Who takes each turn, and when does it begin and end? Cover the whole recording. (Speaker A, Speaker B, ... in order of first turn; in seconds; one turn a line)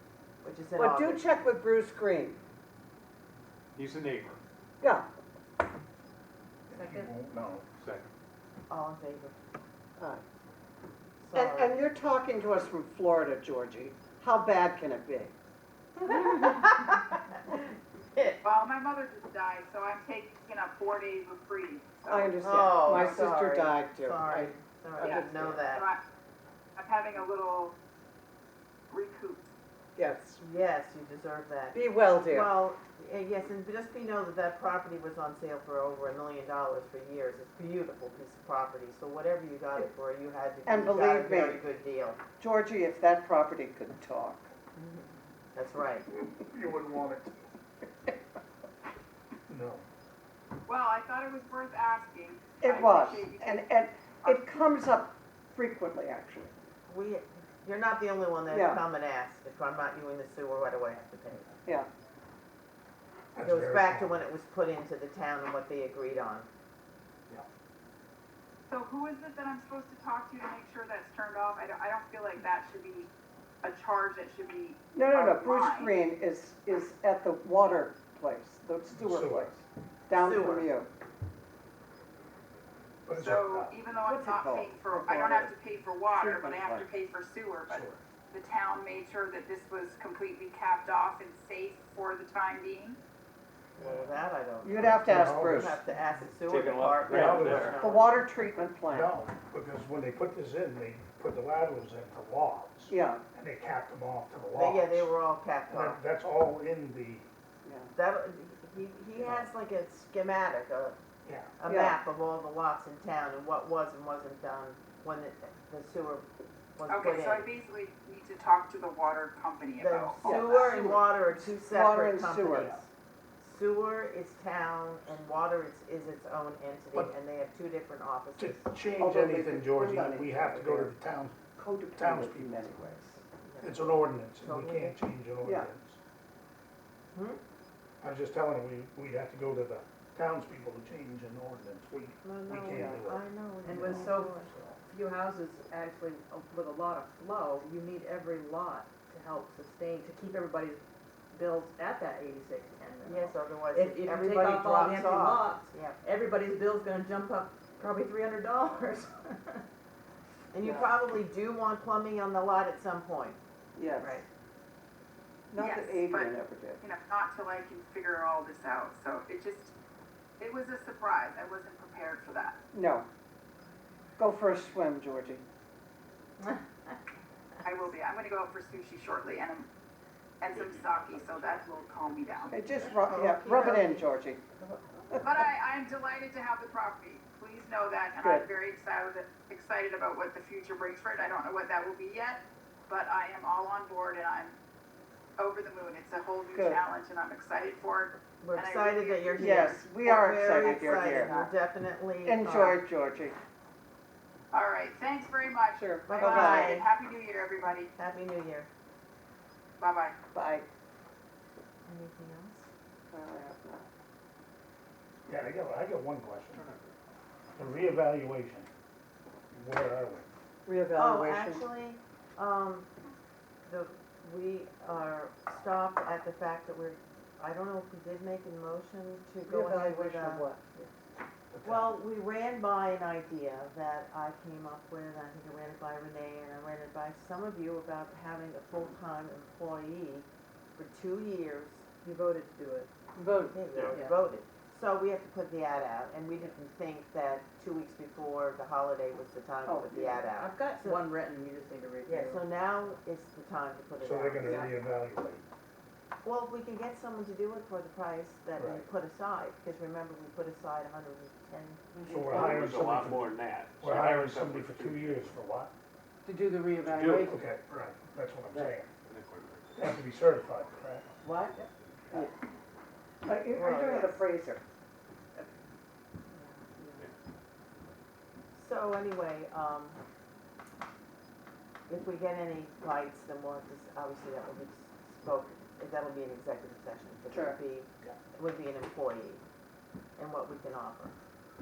Speaker A: 0.4-1.2
Speaker B: 0.8-2.4
Speaker C: 3.8-4.4
Speaker D: 6.7-7.7
Speaker E: 6.7-7.1
Speaker C: 7.8-8.1
Speaker A: 8.7-9.3
Speaker B: 10.0-10.2
Speaker A: 11.2-11.8
Speaker B: 11.3-15.3
Speaker A: 16.0-18.4
Speaker F: 18.4-22.4
Speaker B: 22.1-25.6
Speaker A: 22.4-25.9
Speaker F: 25.0-26.0
Speaker F: 26.8-27.8
Speaker F: 28.9-29.5
Speaker B: 30.0-30.4
Speaker A: 30.4-42.2
Speaker B: 31.7-32.5
Speaker B: 40.6-41.6
Speaker B: 42.4-44.5
Speaker A: 44.8-46.1
Speaker D: 46.1-47.5
Speaker D: 49.5-49.8
Speaker F: 50.7-53.7
Speaker B: 52.6-56.5
Speaker F: 54.2-54.5
Speaker A: 56.9-61.5
Speaker B: 58.5-58.8
Speaker D: 63.4-64.2
Speaker A: 63.4-66.5
Speaker F: 68.7-73.1
Speaker F: 73.6-75.9
Speaker B: 75.0-80.9
Speaker D: 78.9-79.6
Speaker A: 80.2-80.7
Speaker D: 83.1-83.7
Speaker F: 83.1-93.0
Speaker B: 84.0-85.5
Speaker C: 86.1-86.9
Speaker D: 87.7-88.0
Speaker A: 93.8-98.3
Speaker D: 93.8-94.2
Speaker B: 94.6-95.8
Speaker D: 94.8-95.8
Speaker C: 96.5-97.8
Speaker D: 97.1-97.8
Speaker B: 97.8-99.1
Speaker D: 98.9-105.1
Speaker B: 102.9-103.2
Speaker A: 104.5-106.0
Speaker D: 105.7-107.2
Speaker B: 107.7-107.9
Speaker A: 107.9-111.0
Speaker D: 111.2-111.5
Speaker A: 111.6-117.5
Speaker B: 111.7-112.0
Speaker F: 116.9-120.7
Speaker A: 119.8-122.9
Speaker B: 120.2-122.8
Speaker A: 123.4-128.7
Speaker D: 128.4-131.4
Speaker B: 129.0-130.9
Speaker B: 131.5-133.2
Speaker D: 132.0-133.0
Speaker A: 133.4-135.0
Speaker D: 133.6-136.0
Speaker B: 135.4-135.7
Speaker A: 137.1-137.4
Speaker D: 138.0-144.7
Speaker A: 142.2-144.6
Speaker B: 142.6-143.0
Speaker E: 143.6-150.8
Speaker E: 151.3-159.6
Speaker A: 153.0-156.0
Speaker A: 160.5-163.4
Speaker B: 163.8-164.2
Speaker B: 165.5-166.8
Speaker F: 165.6-169.7
Speaker F: 170.4-172.6
Speaker B: 172.7-173.1
Speaker B: 174.2-175.4
Speaker F: 177.6-179.7
Speaker F: 180.4-182.8
Speaker C: 180.5-182.8
Speaker B: 182.5-184.5
Speaker A: 183.1-184.1
Speaker F: 185.2-194.6
Speaker B: 188.2-188.5
Speaker F: 195.4-199.8
Speaker B: 196.5-196.8
Speaker A: 198.4-202.8
Speaker B: 199.3-201.4
Speaker F: 200.6-201.5
Speaker B: 202.2-203.4
Speaker F: 204.5-207.9
Speaker B: 205.8-206.8
Speaker A: 206.1-206.9
Speaker A: 208.0-208.7
Speaker F: 209.8-210.2
Speaker B: 210.3-210.7
Speaker A: 211.9-212.7
Speaker B: 213.1-213.9
Speaker D: 215.3-216.7
Speaker C: 216.6-216.8
Speaker D: 217.6-218.7
Speaker D: 219.5-220.3
Speaker B: 220.7-221.6
Speaker A: 220.9-222.9
Speaker A: 223.7-230.5
Speaker B: 229.5-230.7
Speaker D: 231.5-232.0
Speaker A: 231.7-241.8
Speaker E: 242.0-244.2
Speaker A: 243.5-251.0
Speaker B: 249.7-250.3
Speaker E: 250.4-252.9
Speaker A: 252.1-254.7
Speaker D: 254.0-255.4
Speaker A: 256.2-261.8
Speaker D: 258.6-258.8
Speaker E: 261.9-262.3
Speaker D: 262.1-265.7
Speaker C: 262.3-265.3
Speaker E: 266.2-267.4
Speaker C: 266.8-267.4
Speaker D: 267.2-268.9
Speaker C: 268.6-269.8
Speaker D: 269.8-271.1
Speaker A: 271.2-271.6
Speaker E: 271.5-272.3
Speaker B: 273.2-274.6
Speaker A: 273.5-274.2
Speaker A: 278.6-280.0
Speaker A: 281.9-289.4
Speaker B: 287.3-287.6
Speaker A: 290.2-291.1